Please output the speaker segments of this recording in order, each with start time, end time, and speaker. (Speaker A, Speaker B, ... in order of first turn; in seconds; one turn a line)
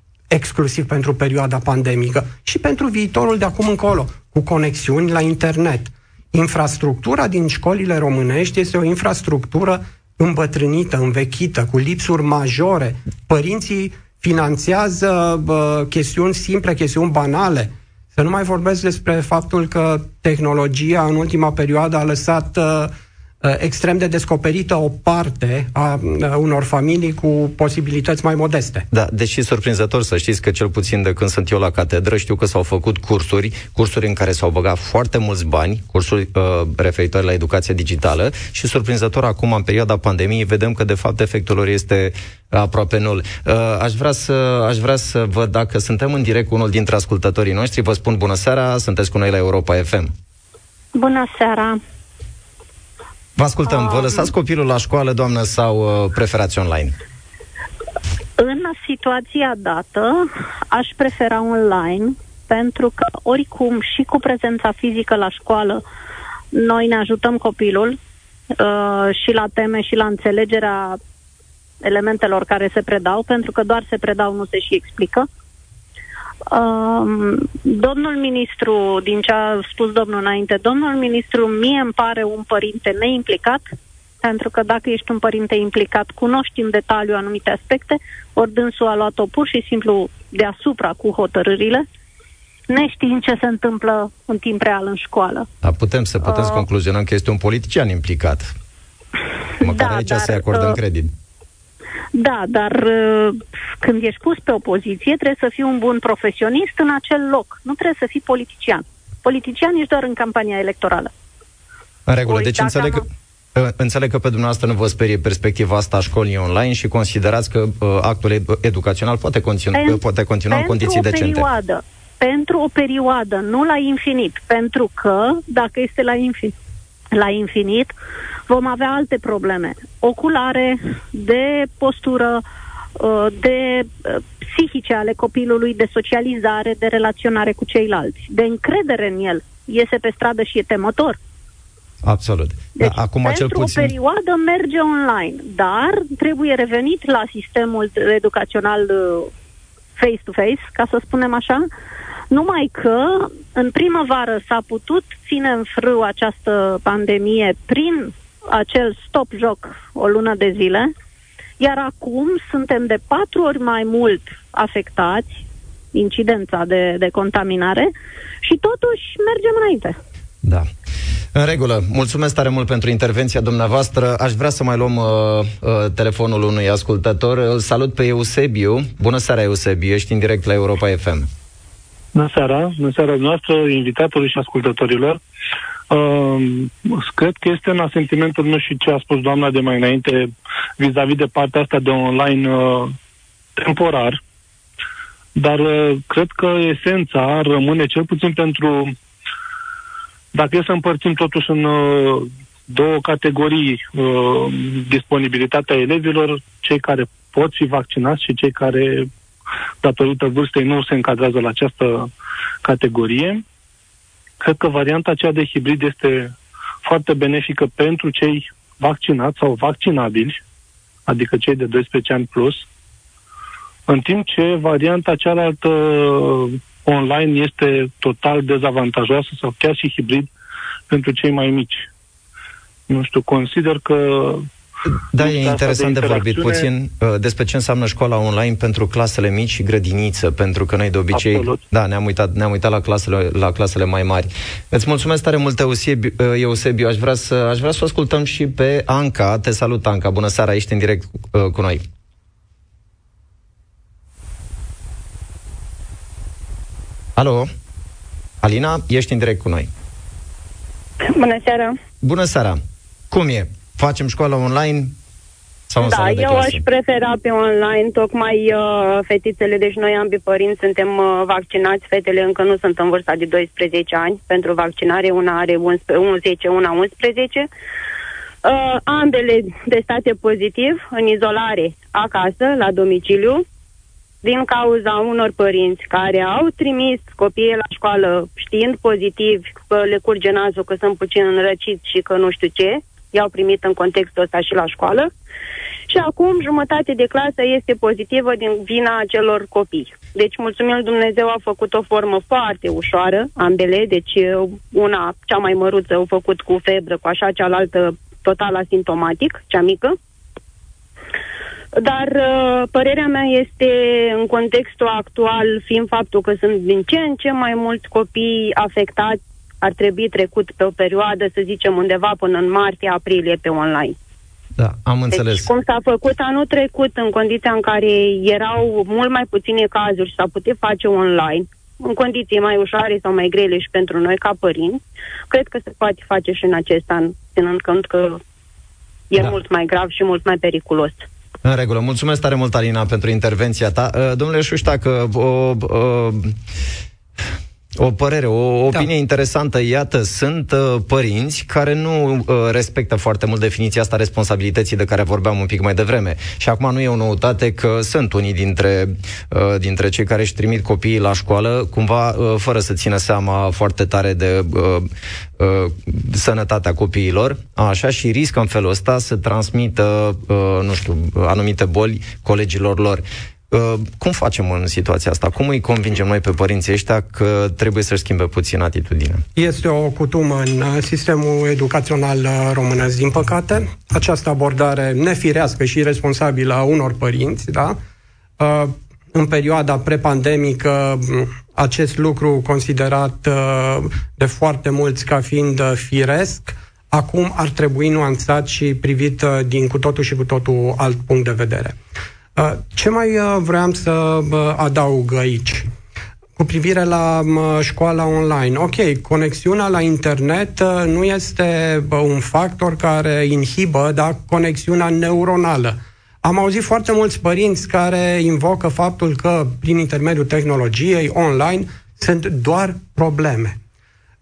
Speaker A: 0.3-28.9
Speaker B: 28.9-50.1
Speaker C: 50.9-51.8
Speaker B: 53.4-56.9
Speaker C: 53.8-54.3
Speaker C: 58.4-65.8
Speaker C: 66.5-68.0
Speaker C: 68.6-71.0
Speaker C: 71.8-75.3
Speaker C: 76.5-83.6
Speaker C: 84.2-91.8
Speaker C: 92.7-95.5
Speaker B: 95.6-98.5
Speaker C: 96.3-96.6
Speaker C: 99.6-100.8
Speaker B: 99.6-101.1
Speaker C: 102.1-111.1
Speaker B: 112.1-113.0
Speaker C: 112.3-113.0
Speaker B: 113.5-121.5
Speaker C: 119.7-126.5
Speaker C: 127.1-127.9
Speaker C: 128.5-132.4
Speaker C: 132.9-141.2
Speaker B: 142.0-143.9
Speaker C: 142.8-149.3
Speaker C: 150.0-151.7
Speaker C: 152.3-160.9
Speaker C: 161.6-165.4
Speaker C: 165.9-167.9
Speaker C: 168.4-169.9
Speaker B: 170.4-170.7
Speaker B: 171.3-181.3
Speaker D: 182.1-185.2
Speaker D: 185.9-192.9
Speaker D: 193.6-194.2
Speaker D: 195.3-198.9
Speaker D: 200.3-209.1
Speaker D: 209.8-212.1
Speaker D: 212.6-213.4
Speaker D: 214.4-220.4
Speaker D: 221.1-222.6
Speaker D: 223.9-230.3
Speaker D: 230.9-231.9
Speaker D: 232.9-234.4
Speaker B: 234.9-251.8
Speaker D: 235.1-236.6
Speaker D: 241.1-241.6
Speaker B: 257.2-257.5
Speaker B: 258.4-259.7
Speaker E: 261.0-261.8
Speaker B: 262.0-262.6
Speaker B: 263.1-264.9
Speaker B: 265.7-266.6
Speaker E: 265.8-277.5
Speaker E: 278.4-283.4
Speaker E: 284.2-295.1
Speaker E: 295.9-309.9
Speaker E: 311.8-323.9
Speaker B: 324.6-325.5
Speaker E: 325.1-338.2
Speaker E: 339.1-341.1
Speaker B: 341.4-346.3
Speaker B: 347.8-379.2
Speaker A: 379.4-387.8
Speaker A: 388.4-401.8
Speaker A: 402.4-405.6
Speaker A: 406.4-423.6